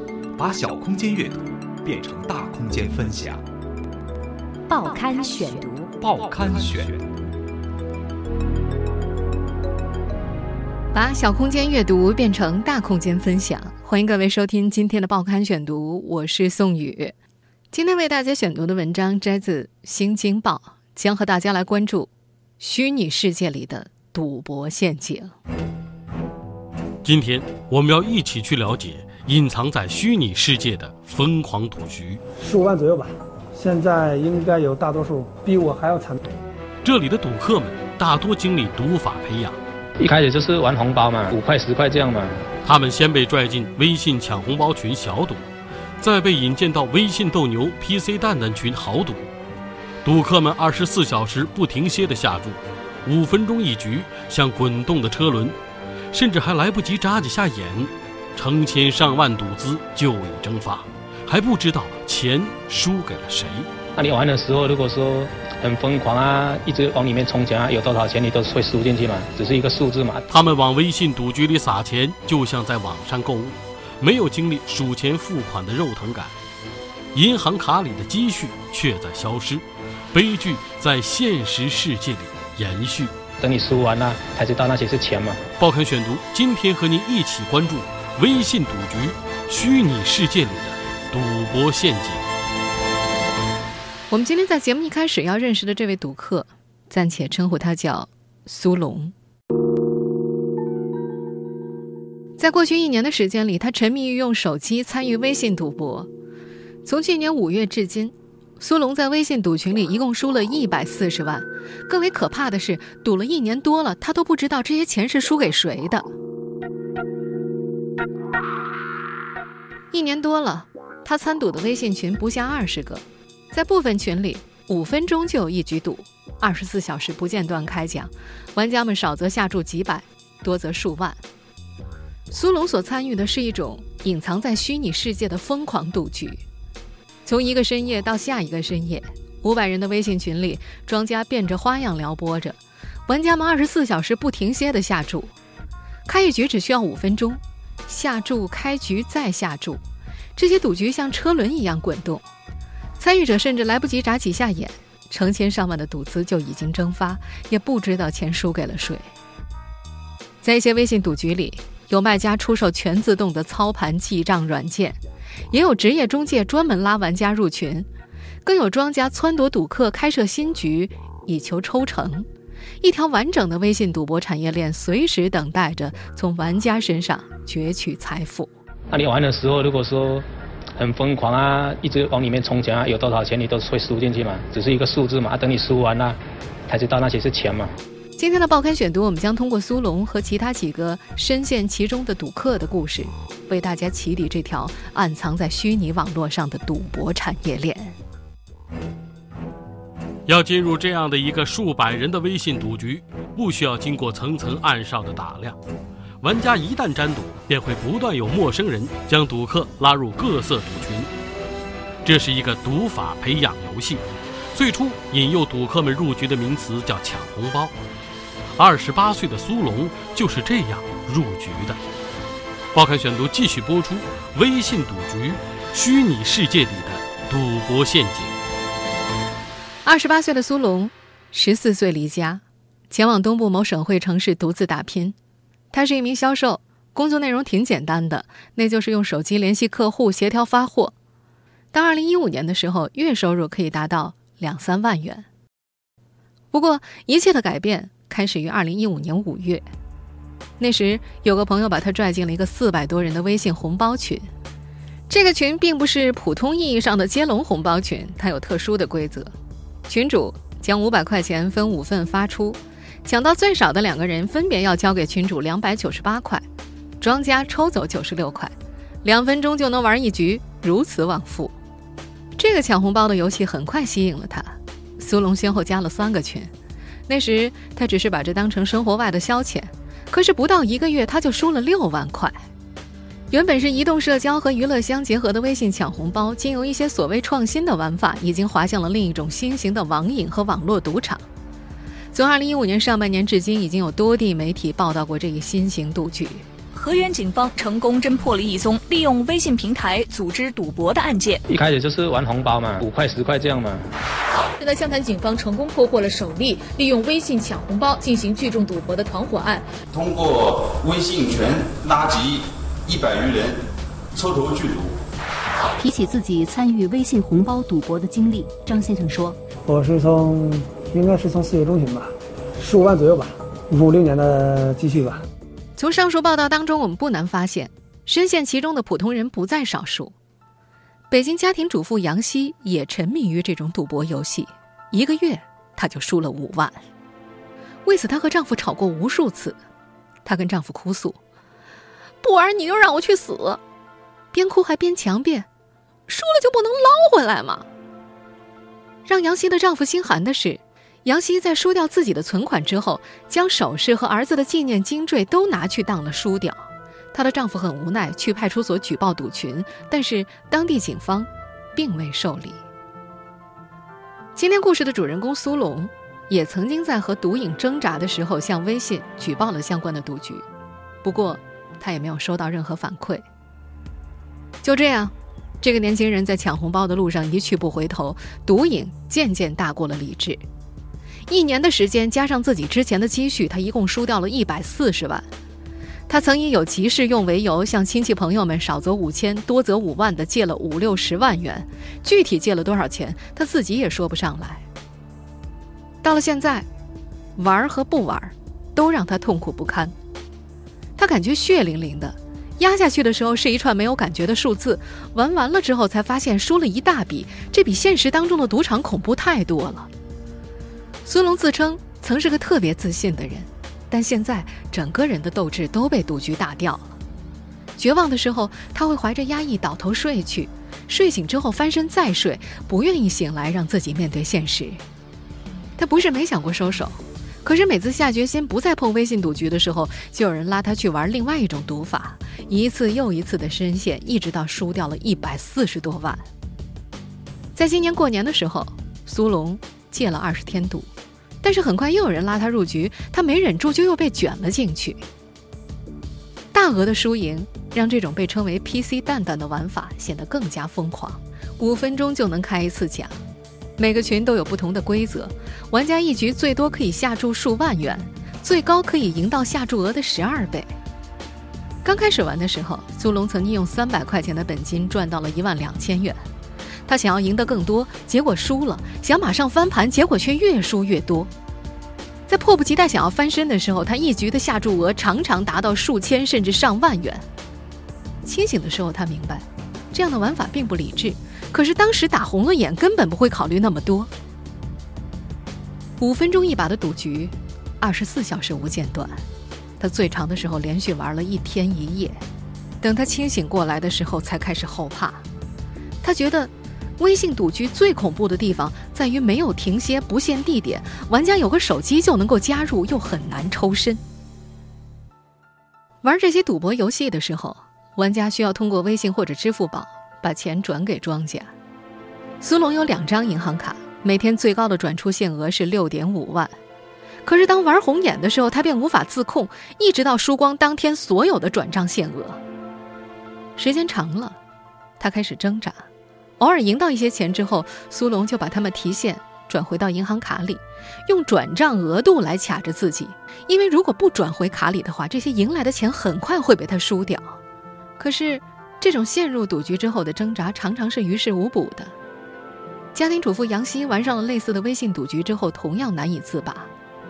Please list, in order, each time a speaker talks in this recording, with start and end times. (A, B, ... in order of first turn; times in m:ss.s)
0:00.4-0:03.4 A
0:04.7-0:05.9 B
0:06.0-0:07.3 A
0:10.9-0:17.2 C
0:17.7-0:25.4 C
0:27.0-0:32.2 D
0:32.4-0:36.2 E
0:36.8-0:39.6 D
0:40.0-0:42.4 F
0:42.6-0:45.4 D
0:46.0-0:49.2 D
0:50.0-0:55.6 D
0:56.1-1:03.7 D
1:04.0-1:10.3 F
1:10.3-1:16.3 D
1:17.1-1:23.1 D
1:23.4-1:25.4 F
1:25.6-1:32.3 D
1:34.1-1:39.1 C
1:42.4-1:46.1 C
1:46.8-1:56.1 C
1:59.9-2:11.2 C
2:12.3-2:16.4 C
2:17.3-2:25.3 C
2:26.1-2:29.8 C
2:30.4-2:32.2 C
2:33.0-2:39.1 C
2:40.4-2:45.0 C
2:45.5-2:47.9 C
2:48.4-2:52.3 C
2:52.8-2:58.5 C
2:58.9-3:07.8 F
3:08.2-3:18.0 C
3:20.3-3:25.6 D
3:26.2-3:31.1 D
3:32.0-3:34.0 D
3:34.5-3:37.7 D
3:38.6-3:41.8 D
3:42.7-3:48.4 D
3:49.8-3:55.2 C
3:55.7-4:00.9 C
4:01.7-4:05.3 C
4:06.5-4:09.7 C
4:10.6-4:14.3 C
4:15.1-4:19.3 C
4:19.9-4:26.4 C
4:27.0-4:28.5 C
4:29.0-4:31.6 C
4:32.4-4:36.5 C
4:37.1-4:42.4 C
4:43.3-4:51.2 C
4:52.1-4:56.4 C
4:56.7-5:01.4 G
5:01.5-5:03.9 F
5:04.6-5:09.7 H
5:09.9-5:13.6 I
5:14.1-5:14.9 I
5:15.8-5:19.4 B
5:19.6-5:25.2 E
5:25.8-5:30.1 C
5:31.1-5:36.8 C
5:37.8-5:39.6 C
5:40.2-5:41.2 C
5:42.2-5:43.6 C
5:44.3-5:45.5 C
5:46.1-5:47.7 C
5:49.1-6:02.6 C
6:04.4-6:10.4 C
6:11.0-6:13.2 C
6:14.6-6:20.4 C
6:21.3-6:25.3 C
6:26.1-6:34.6 C
6:36.0-6:36.7 C
6:37.4-6:40.0 C
6:41.0-6:49.9 C
6:51.0-6:56.9 C
6:57.8-7:04.8 C
7:05.8-7:16.2 C
7:17.6-7:20.9 C
7:21.4-7:25.0 C
7:26.5-7:33.2 C
7:33.8-7:40.7 C
7:41.8-7:46.2 C
7:46.9-7:51.3 C
7:52.3-7:57.2 C
7:58.2-8:04.1 C
8:06.0-8:09.2 C
8:09.8-8:12.2 C
8:12.8-8:15.2 C
8:16.0-8:24.0 C
8:26.0-8:31.5 C
8:32.4-8:36.6 C
8:37.3-8:42.4 C
8:43.6-8:44.4 C
8:45.0-8:45.9 C
8:46.4-8:57.4 C
8:58.0-9:01.9 C
9:03.0-9:06.7 C